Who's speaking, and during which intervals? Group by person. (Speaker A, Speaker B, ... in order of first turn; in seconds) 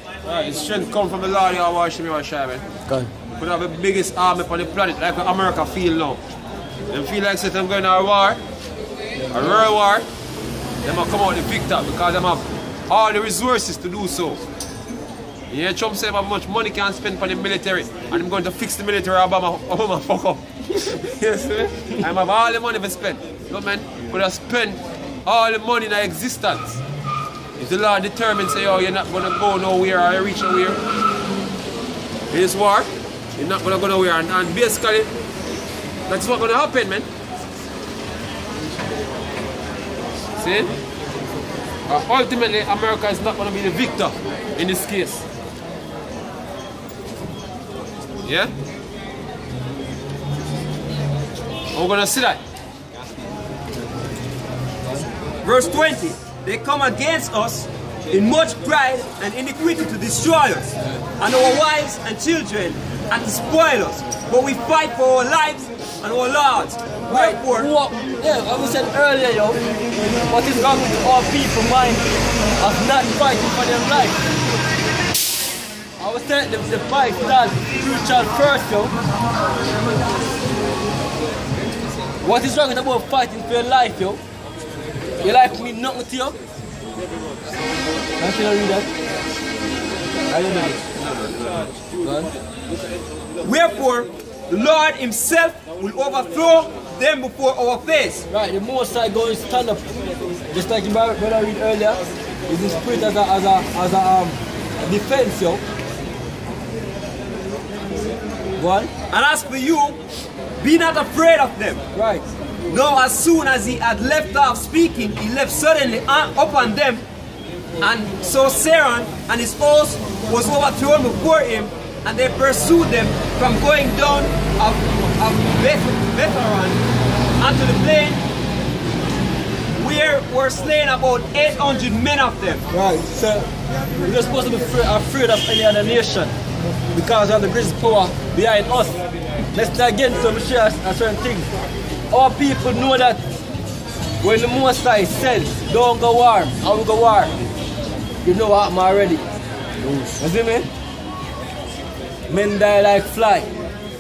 Speaker A: 0.2-2.6, 3.4-6.2, 6.9-8.4, 9.3-10.1, 10.8-14.4, 15.5-26.8, 27.6-30.8, 32.3-35.1, 36.1-37.1, 40.4-40.7, 41.9-45.2, 48.2-48.5, 51.7-52.4, 91.0-91.7
Speaker B: 9.2-9.7, 67.1-72.0, 72.6-74.2, 76.0-78.9, 82.2-84.2, 85.2-86.3, 88.2-88.9, 90.3-90.8, 92.0-92.3, 98.3-99.9, 100.5-105.6, 108.5-108.9, 111.9-112.3, 132.7-133.5, 134.0-136.3, 136.9-139.0, 139.5-141.5, 142.1-143.2, 144.2-147.4, 148.2-149.2, 150.0-150.7, 152.3-153.5
Speaker C: 55.4-67.7, 93.4-98.2, 109.1-110.0, 110.6-111.8, 112.7-117.0, 117.8-126.8, 127.4-128.2, 129.8-132.6